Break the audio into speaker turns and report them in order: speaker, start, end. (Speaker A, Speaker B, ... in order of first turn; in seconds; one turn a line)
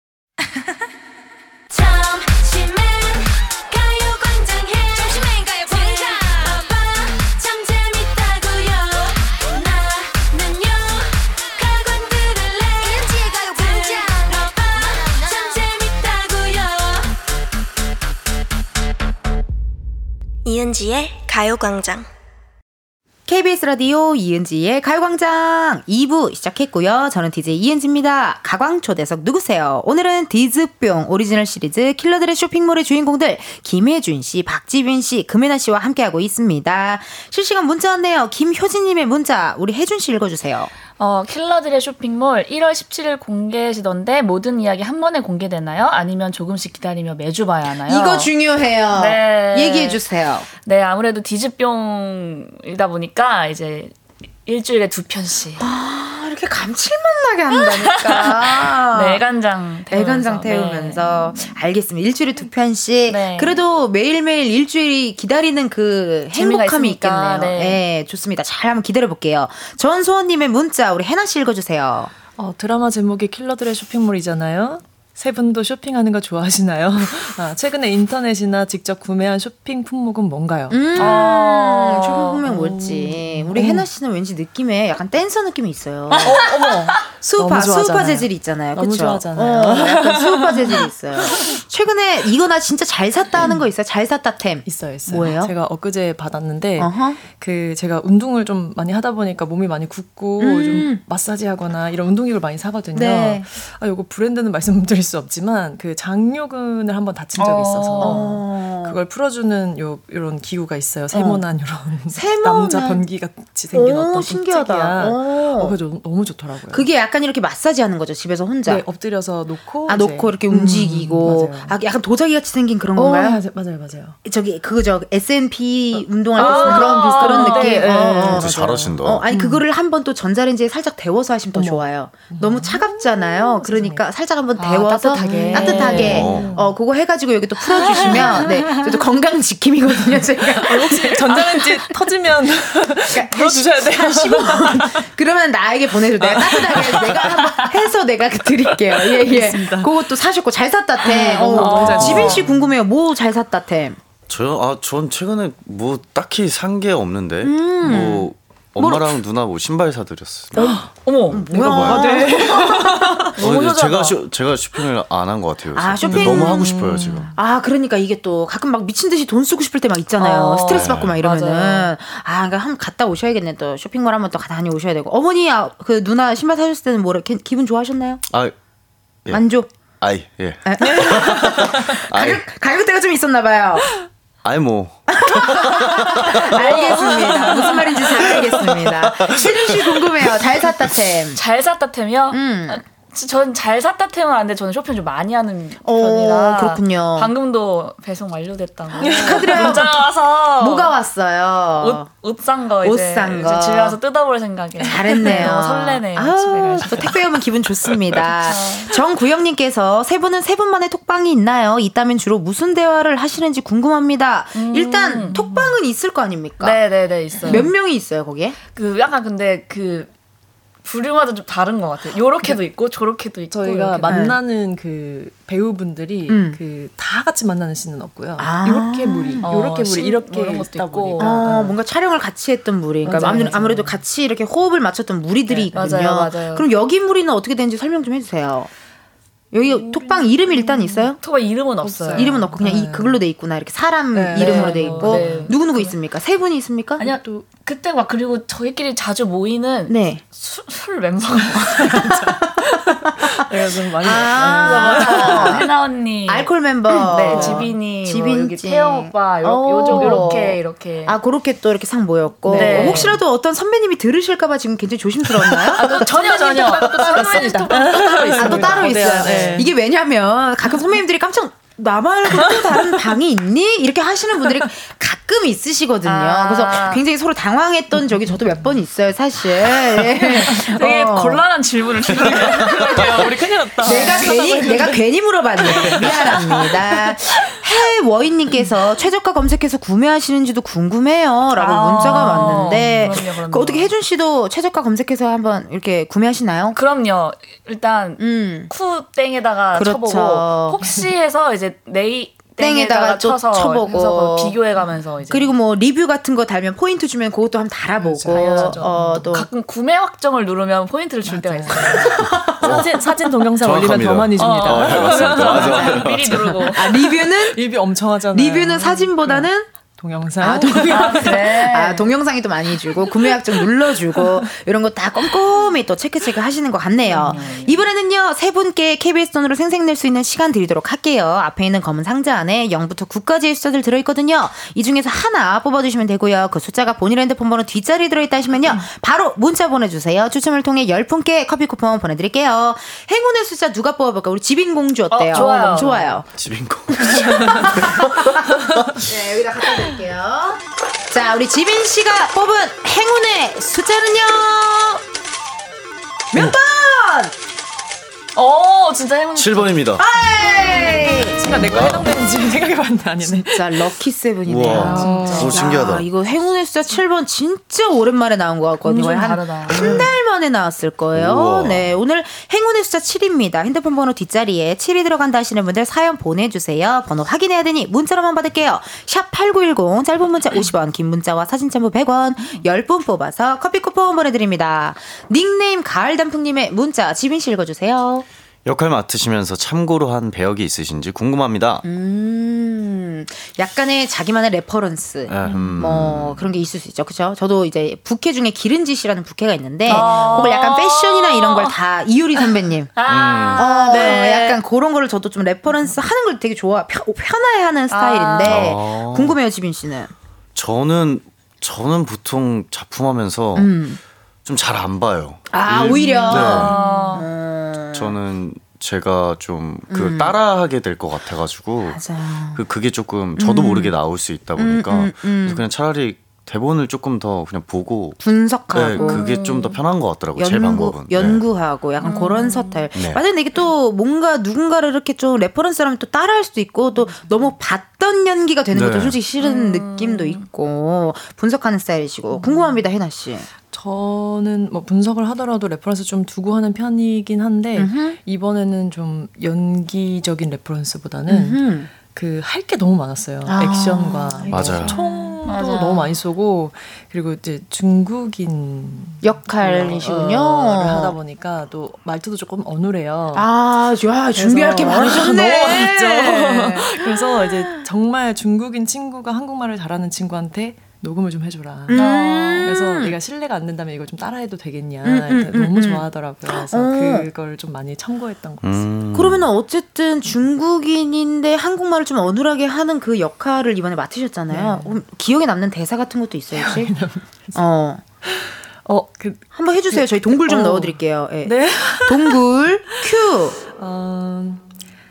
Speaker A: 1.7-17.1
Speaker A: 20.4-22.1
Speaker B: 23.3-40.7
Speaker C: 41.0-48.3
Speaker B: 47.9-50.5
Speaker C: 48.9-50.0
Speaker C: 50.6-53.9
Speaker C: 54.5-55.6
Speaker B: 55.6-59.2
Speaker C: 57.5-61.5
Speaker B: 59.9-72.1
Speaker C: 63.1-63.6
Speaker C: 66.3-67.8
Speaker D: 72.3-81.3
Speaker B: 80.7-86.4
Speaker C: 81.0-82.3
Speaker D: 82.4-83.8
Speaker D: 86.2-91.5
Speaker B: 87.1-95.5
Speaker D: 94.7-116.8
Speaker B: 96.8-97.2
Speaker B: 100.4-101.0
Speaker B: 102.9-103.5
Speaker C: 107.4-108.3
Speaker B: 108.0-109.0
Speaker B: 111.1-111.4
Speaker B: 112.1-113.0
Speaker B: 113.7-115.8
Speaker B: 116.7-118.8
Speaker D: 118.7-121.8
Speaker B: 119.8-123.4
Speaker D: 123.0-124.2
Speaker B: 124.2-141.9
Speaker D: 126.0-129.6
Speaker C: 126.4-128.3
Speaker E: 128.3-129.2
Speaker D: 131.5-134.0
Speaker C: 134.6-136.3
Speaker D: 134.6-136.8
Speaker E: 136.0-136.5
Speaker C: 137.7-139.0
Speaker D: 137.8-138.5
Speaker D: 140.5-145.1
Speaker B: 143.1-154.0
Speaker D: 146.2-147.6
Speaker D: 148.9-149.9
Speaker D: 151.0-152.5
Speaker C: 151.5-152.6
Speaker E: 152.0-152.3
Speaker E: 154.3-160.6
Speaker B: 157.4-159.2
Speaker B: 160.5-163.3
Speaker D: 160.6-160.8
Speaker C: 161.0-161.4
Speaker E: 161.5-162.0
Speaker D: 161.5-163.3
Speaker C: 163.4-164.2
Speaker E: 163.4-167.3
Speaker B: 165.7-178.2
Speaker D: 166.1-167.3
Speaker C: 170.2-171.9
Speaker E: 170.7-171.2
Speaker B: 179.3-179.7
Speaker E: 180.0-182.4
Speaker B: 180.6-183.9
Speaker D: 180.8-181.6
Speaker E: 184.4-186.6
Speaker B: 185.1-191.4
Speaker C: 186.6-187.8
Speaker E: 187.1-187.4
Speaker E: 188.3-190.1
Speaker C: 191.3-200.9
Speaker B: 192.3-192.8
Speaker B: 195.8-197.3
Speaker B: 199.0-200.0
Speaker D: 199.0-199.8
Speaker B: 200.6-202.1
Speaker C: 201.8-207.1
Speaker B: 202.8-204.0
Speaker B: 204.8-216.8
Speaker D: 204.8-205.5
Speaker C: 208.4-208.9
Speaker C: 214.5-215.4
Speaker C: 216.6-217.7
Speaker B: 217.4-218.6
Speaker C: 218.7-220.1
Speaker C: 220.8-224.2
Speaker D: 223.5-231.7
Speaker B: 224.1-224.4
Speaker B: 226.3-226.6
Speaker B: 228.4-229.5
Speaker C: 229.4-231.5
Speaker B: 231.2-238.7
Speaker D: 233.0-234.0
Speaker C: 235.5-236.7
Speaker D: 235.5-235.9
Speaker B: 239.5-241.2
Speaker D: 239.6-241.1
Speaker C: 241.2-242.3
Speaker D: 241.8-243.2
Speaker B: 242.1-247.0
Speaker D: 244.1-245.5
Speaker C: 244.3-245.9
Speaker C: 247.0-252.1
Speaker D: 247.0-247.4
Speaker B: 249.9-250.2
Speaker D: 251.8-255.7
Speaker B: 254.0-255.7
Speaker C: 254.2-261.2
Speaker B: 256.3-266.1
Speaker D: 257.2-257.7
Speaker D: 259.9-260.4
Speaker D: 262.4-263.2
Speaker C: 262.5-263.2
Speaker D: 265.4-269.7
Speaker C: 265.7-269.6
Speaker B: 268.3-281.4
Speaker D: 272.3-273.0
Speaker C: 276.0-277.0
Speaker D: 280.1-280.7
Speaker C: 280.7-284.6
Speaker D: 282.1-285.0
Speaker B: 283.8-296.8
Speaker D: 285.6-287.6
Speaker C: 291.6-293.9
Speaker C: 296.7-305.5
Speaker B: 298.2-298.7
Speaker B: 299.7-300.8
Speaker B: 302.6-304.6
Speaker B: 305.3-309.5
Speaker D: 308.0-309.4
Speaker C: 308.3-312.2
Speaker D: 311.2-321.6
Speaker B: 312.0-312.8
Speaker E: 312.6-312.9
Speaker E: 313.6-316.5
Speaker C: 314.4-316.9
Speaker B: 315.6-316.1
Speaker B: 316.7-317.7
Speaker B: 318.3-319.7
Speaker B: 320.4-346.3
Speaker C: 320.9-322.1
Speaker D: 323.0-323.3
Speaker D: 327.1-327.4
Speaker C: 327.1-327.8
Speaker C: 345.1-346.1
Speaker D: 345.4-346.0
Speaker E: 346.3-348.9
Speaker B: 347.0-355.0
Speaker B: 356.3-357.3
Speaker C: 358.4-359.8
Speaker E: 359.4-360.0
Speaker B: 360.0-361.6
Speaker D: 360.9-363.9
Speaker E: 361.6-362.1
Speaker B: 363.2-388.2
Speaker E: 364.4-366.1
Speaker D: 364.7-365.7
Speaker C: 365.0-365.5
Speaker C: 368.8-370.0
Speaker E: 369.7-370.1
Speaker E: 371.1-371.9
Speaker E: 388.6-391.8
Speaker B: 391.8-402.9
Speaker E: 395.3-396.4
Speaker C: 399.9-401.7
Speaker D: 399.9-400.4
Speaker C: 402.9-404.6
Speaker E: 403.1-403.7
Speaker B: 403.5-410.1
Speaker C: 407.9-408.6
Speaker E: 408.4-409.4
Speaker E: 410.5-413.7
Speaker B: 413.5-414.0
Speaker E: 414.4-416.7
Speaker B: 415.5-418.1
Speaker C: 416.3-417.3
Speaker E: 417.9-422.0
Speaker B: 419.9-420.3
Speaker B: 421.9-422.6
Speaker E: 422.5-428.2
Speaker B: 423.4-423.9
Speaker B: 424.6-425.6
Speaker B: 428.2-429.8
Speaker E: 428.7-431.4
Speaker C: 429.0-429.3
Speaker B: 430.4-443.5
Speaker C: 432.0-432.9
Speaker E: 432.9-433.2
Speaker E: 438.7-439.2
Speaker C: 439.4-440.4
Speaker D: 442.3-442.8
Speaker D: 443.7-463.5
Speaker B: 447.8-448.2
Speaker B: 451.3-451.9
Speaker B: 453.4-455.0
Speaker E: 454.5-455.0
Speaker C: 455.4-456.1
Speaker B: 459.2-461.2
Speaker B: 463.3-467.9
Speaker D: 464.4-472.1
Speaker B: 471.9-473.2
Speaker C: 471.9-472.7
Speaker D: 472.6-478.9
Speaker B: 475.0-477.3
Speaker E: 478.6-479.4
Speaker B: 479.1-486.9
Speaker D: 484.5-485.0
Speaker D: 486.5-487.6
Speaker B: 487.5-488.0
Speaker D: 488.2-492.4
Speaker B: 489.5-493.6
Speaker D: 493.8-494.6